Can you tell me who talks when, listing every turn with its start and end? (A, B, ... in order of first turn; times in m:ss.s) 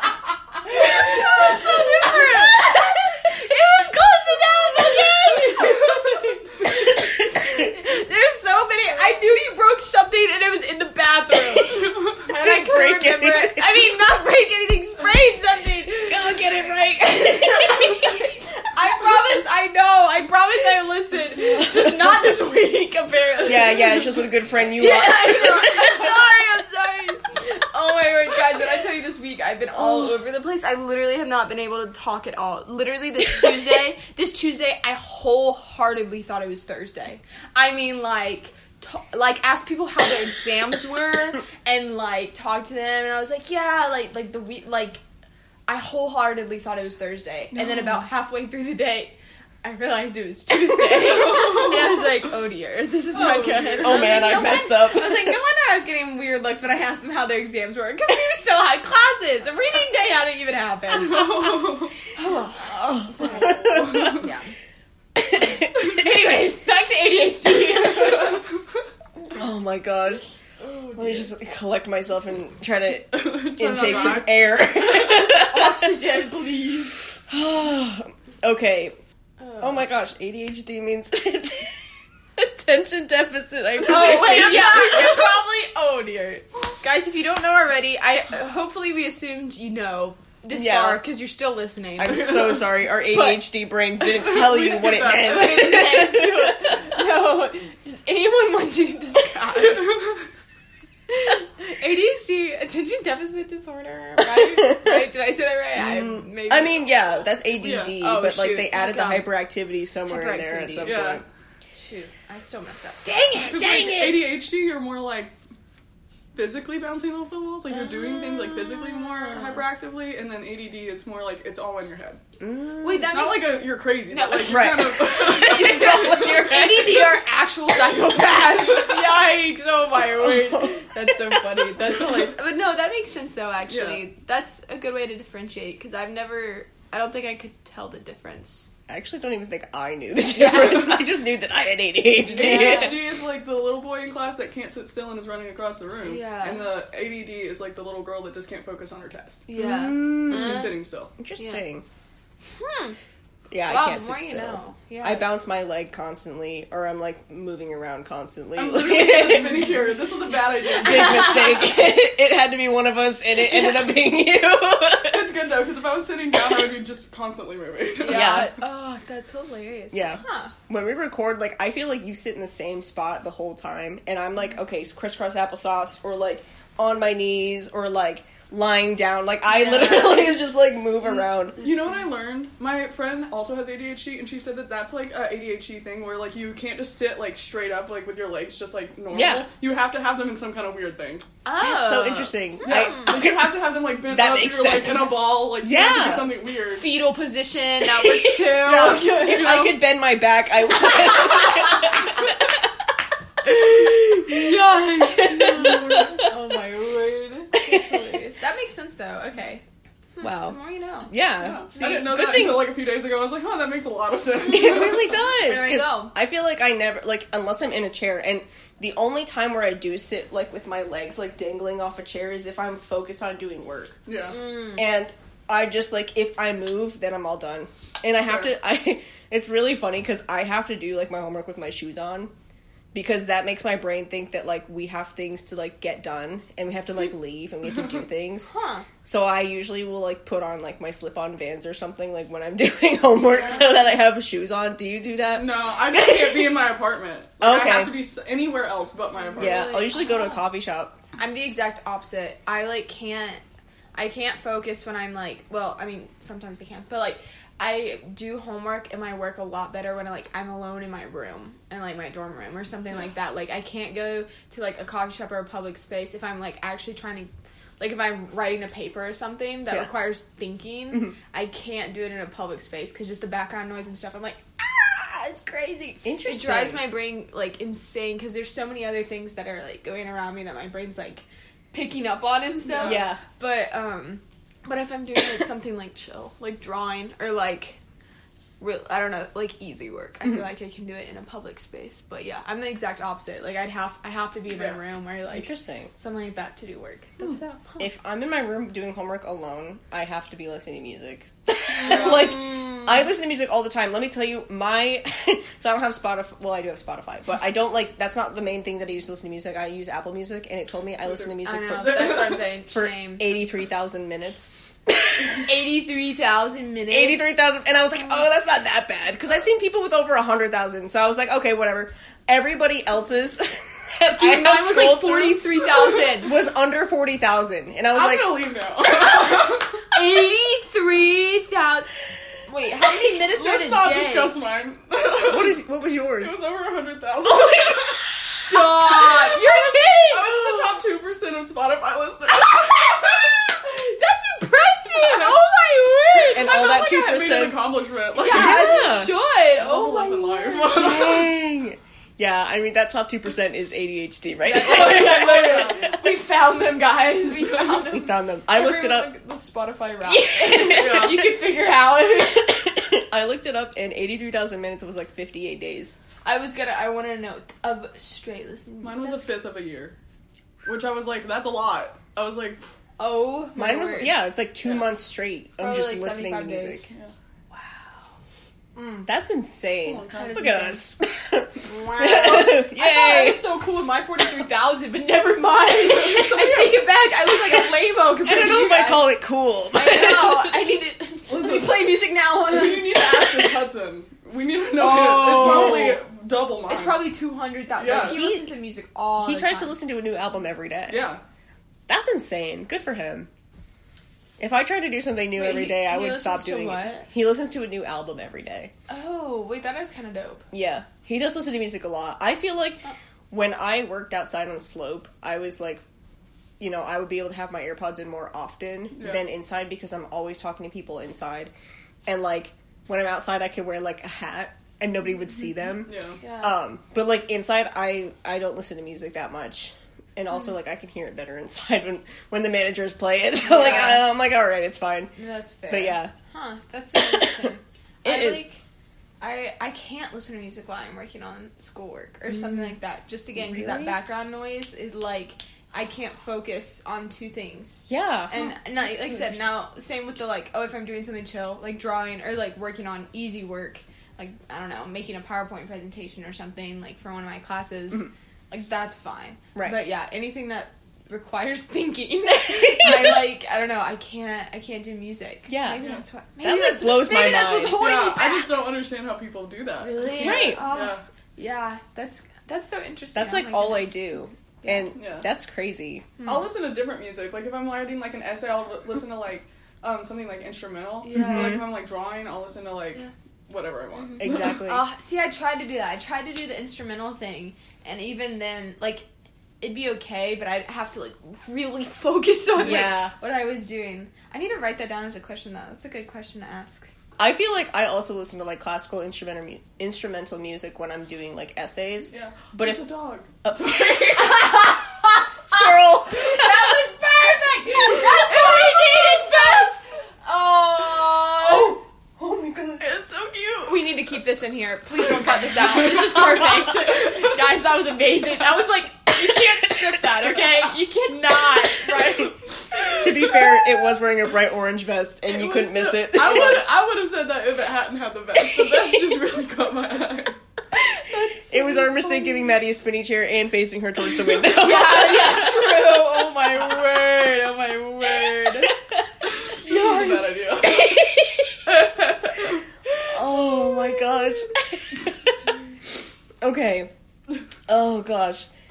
0:00.6-0:16.4 A
0:00.7-0:02.8 B
0:06.9-0:07.5 B
0:12.3-0:13.8 B
0:16.1-0:18.3 B
0:17.2-0:45.0 A
0:21.7-0:22.0 B
0:23.4-0:26.3 B
0:29.8-0:30.1 B
0:45.7-1:01.6 A
0:51.1-0:52.0 C
0:53.1-0:54.3 C
0:53.8-0:55.4 B
1:00.9-1:01.9 C
1:02.2-1:04.5 A
1:02.3-1:04.3 B
1:03.2-1:04.3 C
1:05.2-1:06.0 B
1:05.7-1:08.4 A
1:07.8-1:08.6 C
1:09.3-1:10.3 B
1:10.7-1:11.3 C
1:10.9-1:15.9 B
1:13.1-1:14.7 C
1:13.8-1:14.2 A
1:14.8-1:17.0 A
1:17.0-1:18.9 B
1:19.4-1:19.8 A
1:19.6-1:25.4 B
1:23.8-1:33.4 A
1:24.1-1:24.5 C
1:30.5-1:31.0 B
1:32.0-1:37.0 B
1:32.1-1:32.6 C
1:34.0-1:35.6 C
1:35.2-1:40.0 A
1:39.6-1:40.2 C
1:41.1-1:46.8 A
1:44.2-1:45.1 B
1:45.8-1:51.2 B
1:47.6-1:47.9 C
1:48.0-1:49.3 A
1:50.1-1:51.0 A
1:50.8-1:51.2 C
1:51.7-1:53.8 A
1:53.2-1:54.3 B
1:53.4-1:55.3 C
1:56.3-2:02.2 C
1:59.3-1:59.6 A
2:02.4-2:03.1 B
2:02.8-2:18.6 A
2:03.0-2:07.0 C
2:04.5-2:05.2 B
2:10.1-2:10.9 B
2:13.7-2:14.0 C
2:18.9-2:23.0 B
2:20.3-2:20.9 A
2:22.3-2:29.4 C
2:22.3-2:22.9 A
2:26.0-2:26.6 A
2:29.5-2:30.8 A
2:29.5-2:31.8 B
2:30.3-2:31.1 C
2:32.6-2:33.0 A
2:33.5-2:39.8 B
2:33.7-2:35.3 A
2:38.5-2:41.6 C
2:40.8-2:45.3 B
2:41.0-2:41.3 A
2:45.1-2:48.5 C
2:48.0-2:50.5 A
2:48.0-2:48.5 B
2:49.9-3:01.6 B
2:59.5-3:00.3 A
3:01.1-3:11.2 C
3:09.1-3:09.4 B
3:11.4-3:13.2 A
3:11.6-3:16.3 B
3:12.6-3:16.9 C
3:16.7-3:19.7 A
3:17.8-3:22.5 B
3:18.6-3:19.7 C
3:20.9-3:22.0 A
3:23.4-3:26.3 B
3:24.3-3:26.2 C
3:26.2-3:29.6 A
3:27.5-3:28.2 B
3:30.2-3:31.1 A
3:30.2-3:32.7 B
3:31.4-3:35.2 C
3:31.6-3:32.1 A
3:34.4-3:36.1 A
3:34.5-3:44.0 B
3:44.1-3:44.4 C
3:44.3-3:44.8 A
3:44.7-3:52.3 B
3:48.2-3:48.5 C
3:52.9-3:58.5 B
3:58.5-3:58.9 A
3:59.0-4:06.6 B
4:03.2-4:03.8 A
4:05.3-4:09.7 C
4:07.4-4:08.0 B
4:09.2-4:10.4 A
4:09.4-4:11.0 B
4:11.2-4:13.4 A
4:13.9-4:47.8 A
4:36.0-4:36.8 B
4:42.6-4:43.0 C
4:42.8-4:43.2 B
4:48.6-4:57.9 A
4:55.3-4:55.9 B
4:57.8-5:15.5 B
5:01.7-5:02.9 A
5:01.8-5:02.4 C
5:11.4-5:13.3 A
5:11.7-5:12.4 C
5:15.3-5:17.4 A
5:16.9-5:28.4 B
5:24.1-5:26.4 A
5:27.9-5:29.9 C
5:29.0-5:31.9 A
5:32.5-5:34.4 A
5:33.2-5:35.6 C
5:35.2-5:36.4 B
5:36.2-5:38.1 C
5:37.2-5:40.1 B
5:38.3-5:40.6 A
5:38.8-5:39.2 C
5:40.1-5:43.4 C
5:42.5-5:46.6 A
5:44.9-5:45.4 C
5:46.1-5:48.8 C
5:46.3-5:47.6 B
5:48.1-5:51.2 A
5:48.2-5:49.2 B
5:49.5-5:51.3 C
5:50.6-5:56.1 B
5:54.4-5:58.1 A
5:54.6-5:55.9 C
5:57.9-5:59.1 B
5:58.5-6:01.3 C
6:00.0-6:02.5 A
6:00.3-6:01.2 B
6:02.4-6:06.0 B
6:06.2-6:09.3 A
6:08.8-6:09.9 C
6:10.6-6:12.6 C
6:13.0-6:14.1 A
6:13.5-6:16.8 B
6:15.6-6:16.9 A
6:17.5-6:17.8 A
6:18.8-6:19.1 A
6:19.0-6:23.4 B
6:19.8-6:20.5 C
6:20.1-6:20.8 A
6:21.6-6:29.1 A
6:25.8-6:26.7 C
6:27.3-6:30.6 B
6:29.7-6:33.5 A
6:31.3-6:37.1 C
6:34.8-6:36.0 A
6:35.2-6:36.0 B
6:36.7-6:39.8 A
6:37.8-6:38.2 C
6:37.9-6:38.5 B
6:39.2-6:41.1 B
6:40.9-6:41.2 C
6:41.9-6:43.3 B
6:44.4-6:48.7 B
6:45.3-6:47.1 A
6:48.9-6:50.4 A
6:50.5-6:55.8 B
6:56.6-7:01.5 B
6:58.9-6:59.2 C
7:02.0-7:15.1 B
7:05.9-7:06.2 C
7:06.2-7:06.6 A
7:13.4-7:14.0 A
7:15.2-7:18.6 A
7:15.7-7:16.1 B
7:16.9-7:18.4 B
7:19.2-7:48.5 A
7:22.3-7:22.7 B
7:23.3-7:24.0 B
7:27.9-7:29.4 B
7:42.5-7:43.2 B
7:45.5-7:45.8 B
7:46.4-7:47.9 B
7:47.7-7:51.0 C
7:49.8-7:54.9 A
7:50.1-7:50.6 B
7:53.1-7:56.2 B
7:54.9-7:55.3 C
7:56.2-7:56.4 A
7:56.2-8:04.5 C
8:01.0-8:01.6 A
8:01.1-8:01.6 B
8:03.9-8:09.1 A
8:04.2-8:04.8 B
8:09.6-8:16.9 A
8:12.6-8:13.1 B
8:17.2-8:22.8 B
8:22.1-8:24.4 C
8:23.4-8:24.3 B
8:24.1-8:31.8 A
8:25.4-8:26.8 B
8:28.4-8:28.9 B
8:29.2-8:29.7 C
8:31.4-8:32.9 B
8:32.8-8:33.6 C
8:33.6-8:43.0 A
8:35.9-8:36.5 B
8:39.2-8:40.4 B
8:41.6-8:42.3 B
8:42.7-8:43.6 C
8:43.0-8:46.7 B
8:45.3-8:50.4 C
8:48.5-8:49.0 B
8:50.8-8:52.4 A
8:51.5-8:56.8 B
8:54.5-8:58.7 A
8:58.2-8:59.0 B
8:59.2-9:01.0 C
8:59.4-9:00.4 A
8:59.7-9:00.1 B
9:00.6-9:02.5 B
9:03.1-9:05.3 B
9:05.0-9:05.4 C
9:06.4-9:06.9 B
9:07.7-9:08.5 B